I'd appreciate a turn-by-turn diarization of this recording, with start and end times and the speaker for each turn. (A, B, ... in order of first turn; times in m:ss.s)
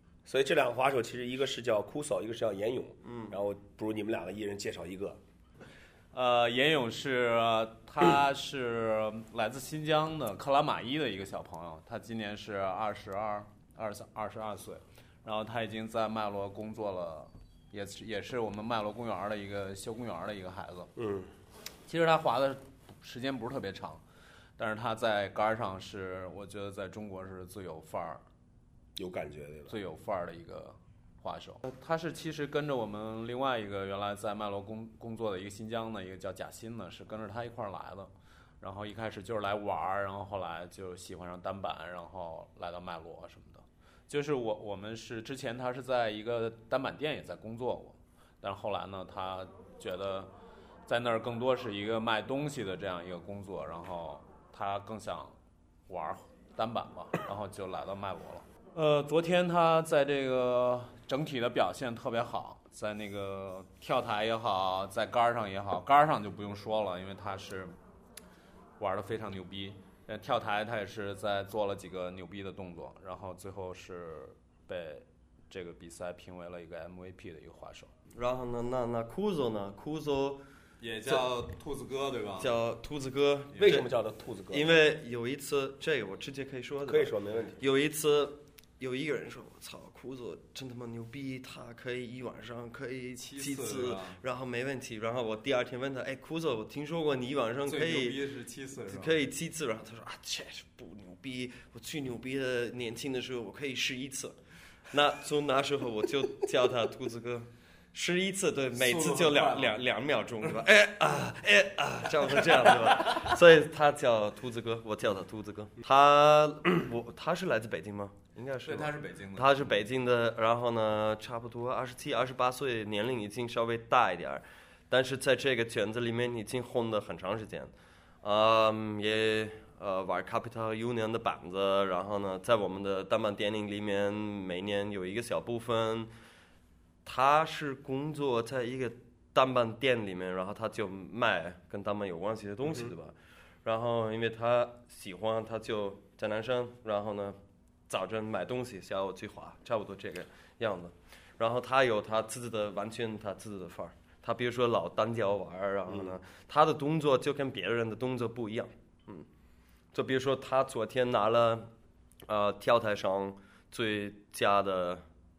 0:00.3-0:05.2 A
0:03.0-0:03.4 B
0:06.1-0:20.9 C
0:21.0-0:21.3 A
0:21.8-0:24.0 C
0:24.6-0:28.2 C
0:29.0-0:29.8 A
0:29.7-0:50.3 C
0:50.9-0:55.4 C
0:55.9-1:07.8 C
1:08.8-1:17.9 C
1:18.1-1:20.4 B
1:20.8-1:22.6 C
1:22.4-1:23.9 B
1:23.6-1:24.7 A
1:24.5-1:38.2 B
1:26.9-1:27.6 A
1:33.2-1:34.2 C
1:37.6-1:39.2 C
1:38.8-1:44.4 B
1:44.9-2:16.1 B
1:48.8-1:49.8 C
1:58.7-1:59.8 C
2:17.0-2:27.4 B
2:27.9-2:39.3 B
2:35.9-2:36.2 A
2:39.9-2:41.7 B
2:42.3-2:45.0 B